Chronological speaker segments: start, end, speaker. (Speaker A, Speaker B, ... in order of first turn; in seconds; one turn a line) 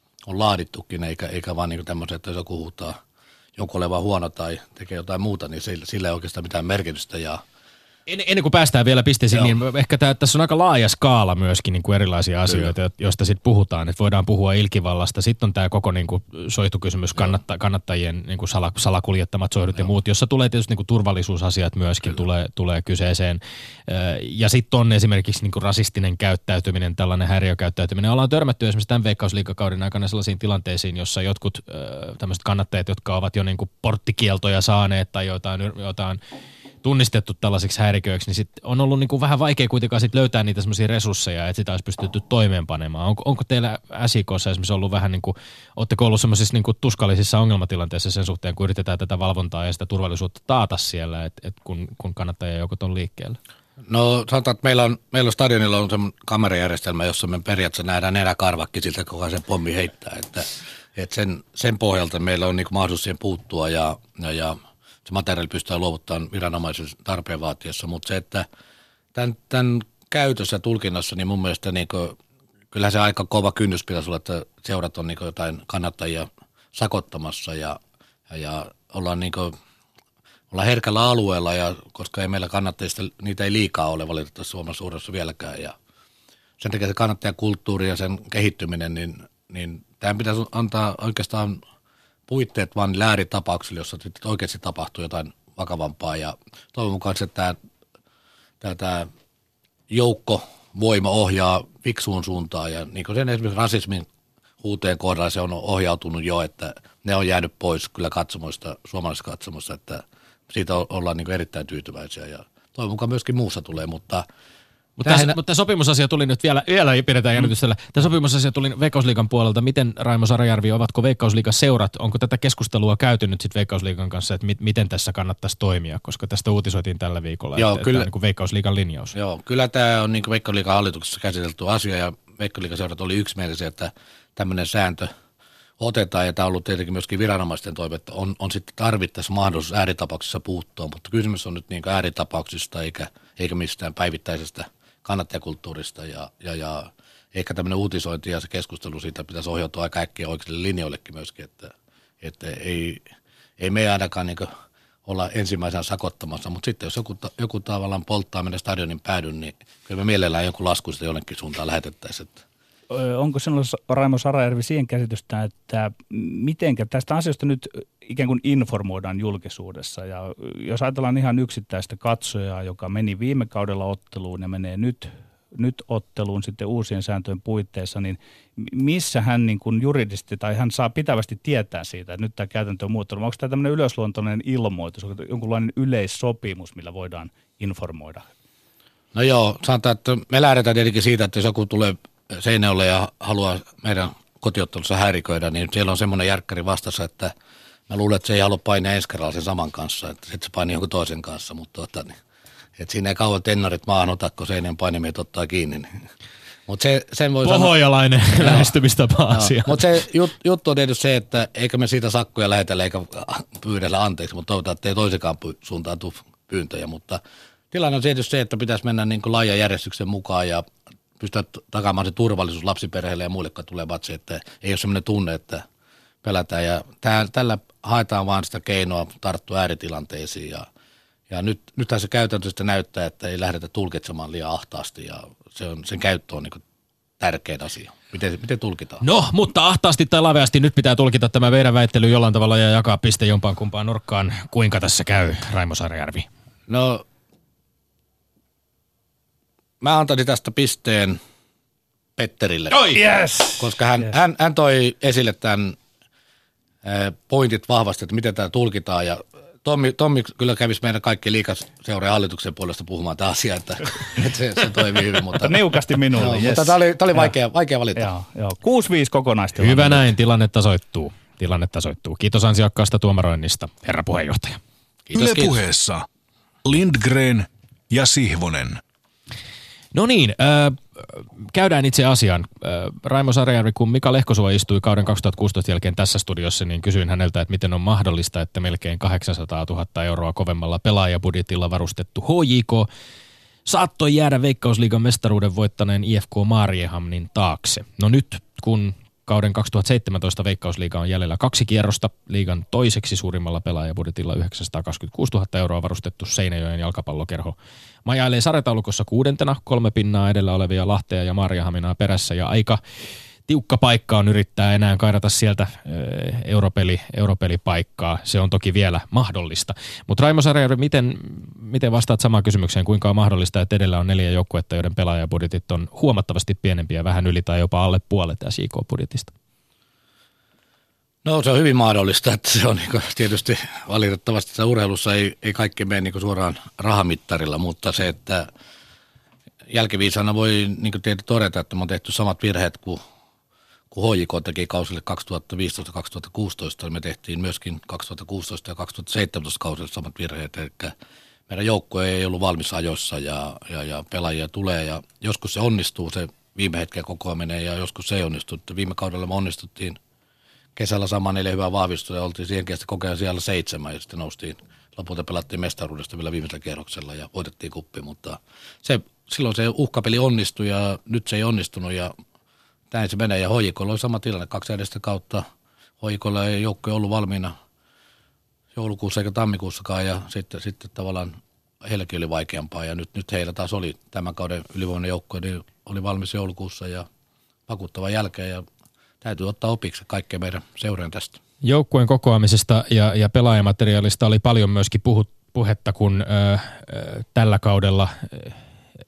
Speaker A: 0.2-3.0
Speaker A: 3.6-7.4
Speaker B: 8.1-36.2
Speaker B: 36.8-53.4
Speaker A: 53.9-68.5
Speaker A: 69.1-72.2
Speaker A: 72.7-79.5
Speaker A: 80.5-85.7
Speaker A: 86.6-91.6
Speaker A: 92.3-97.6
Speaker A: 98.6-99.1
Speaker A: 99.9-104.1
Speaker A: 104.6-114.3
Speaker B: 115.0-129.2
Speaker A: 115.0-115.4
Speaker A: 127.6-128.1
Speaker A: 129.1-135.1
Speaker A: 135.8-153.0
Speaker A: 153.6-154.5
Speaker A: 155.1-162.4
Speaker C: 162.9-188.3
Speaker A: 189.1-197.3
Speaker A: 197.9-202.2
Speaker A: 202.8-206.0
Speaker A: 206.7-207.8
Speaker B: 207.4-209.9
Speaker A: 208.3-208.7
Speaker A: 209.3-217.2
Speaker A: 217.7-220.7
Speaker A: 221.2-225.6
Speaker A: 226.2-230.7
Speaker A: 231.3-236.6
Speaker A: 237.2-239.0
Speaker B: 239.0-246.3
Speaker A: 246.7-247.0
Speaker A: 249.8-251.2
Speaker A: 252.2-252.9
Speaker C: 252.8-254.1
Speaker A: 253.6-255.8
Speaker A: 256.8-265.6
Speaker C: 265.4-267.3
Speaker A: 266.1-268.1
Speaker C: 267.9-270.1
Speaker B: 269.6-274.6
Speaker A: 275.1-275.6
Speaker D: 275.1-276.1
Speaker D: 276.6-278.8
Speaker B: 279.9-292.9
Speaker B: 293.6-312.8
Speaker B: 313.5-329.3
Speaker A: 331.2-338.5
Speaker A: 339.7-343.0
Speaker A: 343.9-350.9
Speaker A: 351.5-360.0
Speaker A: 360.8-372.1
Speaker A: 372.9-375.4
Speaker A: 376.0-377.6
Speaker A: 378.7-387.1
Speaker A: 387.7-388.6
Speaker A: 389.2-391.4
Speaker B: 391.6-398.6